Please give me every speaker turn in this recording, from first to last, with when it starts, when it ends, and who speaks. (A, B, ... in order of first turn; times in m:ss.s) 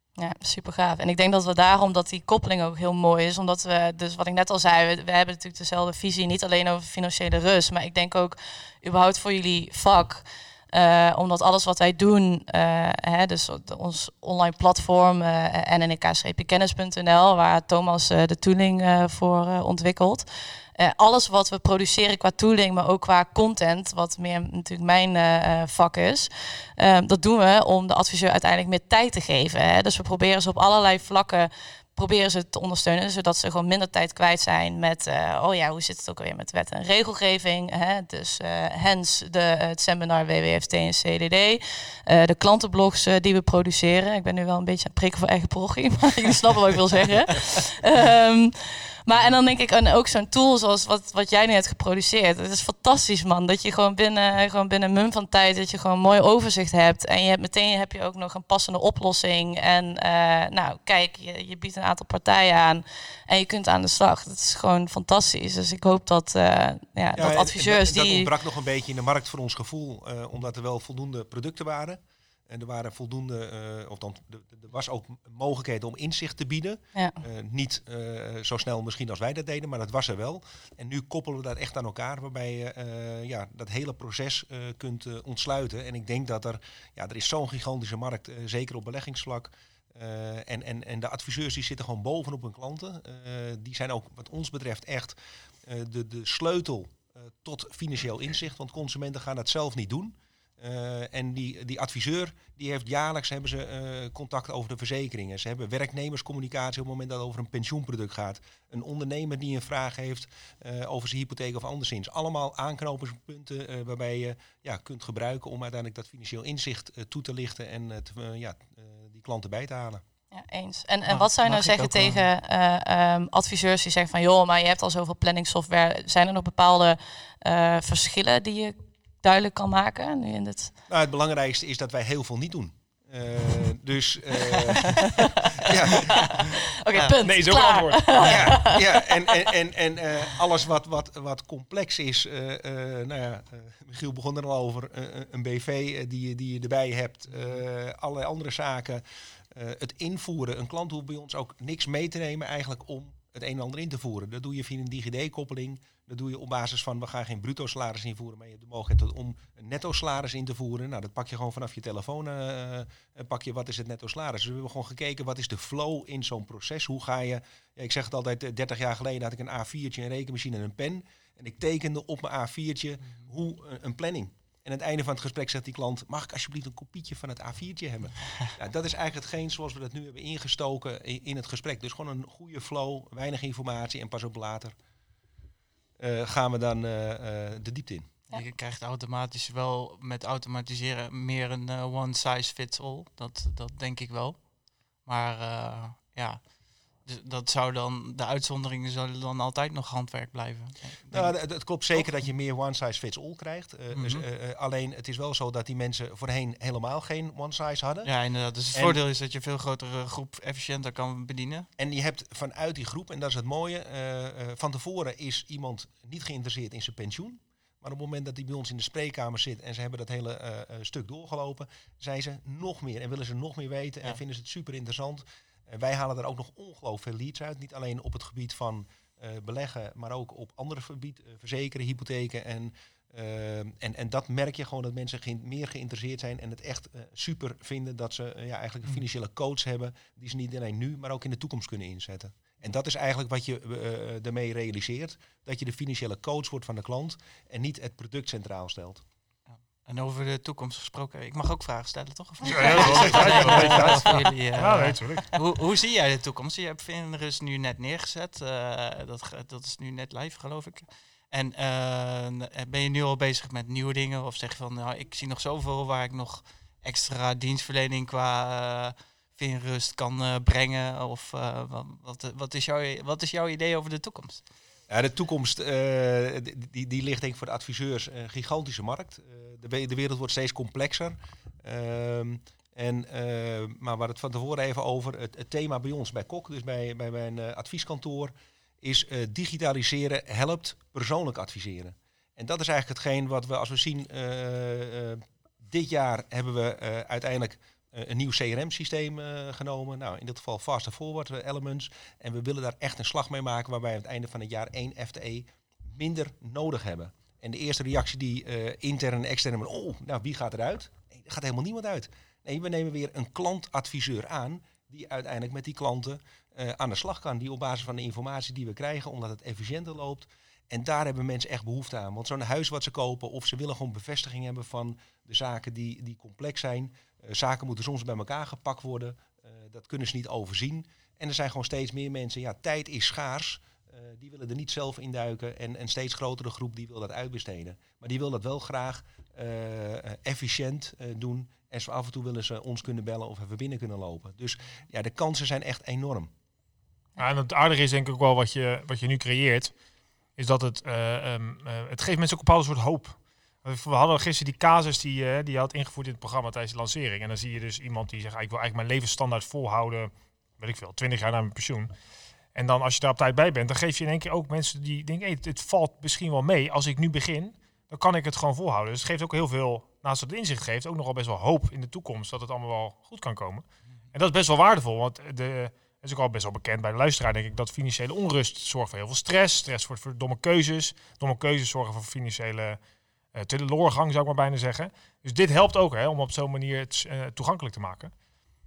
0:00.2-1:08.3 A
1:07.2-2:00.0 B
2:00.3-2:10.7 A
2:01.1-2:02.3 C
2:10.9-2:16.5 B
2:15.0-2:19.4 A
2:17.2-2:18.4 D
2:18.2-3:04.8 B
3:06.0-3:08.1 B
3:08.3-3:21.4 C
3:21.1-3:28.1 B
3:23.9-3:24.2 C
3:28.0-3:31.7 C
3:28.7-3:29.0 B
3:31.8-4:09.0 B
4:09.5-4:34.4 C
4:12.4-4:15.3 D
4:34.9-5:46.3 B
5:47.2-5:49.7 D
5:50.4-6:01.9 D
6:02.6-6:22.8 D
6:23.3-6:28.1 D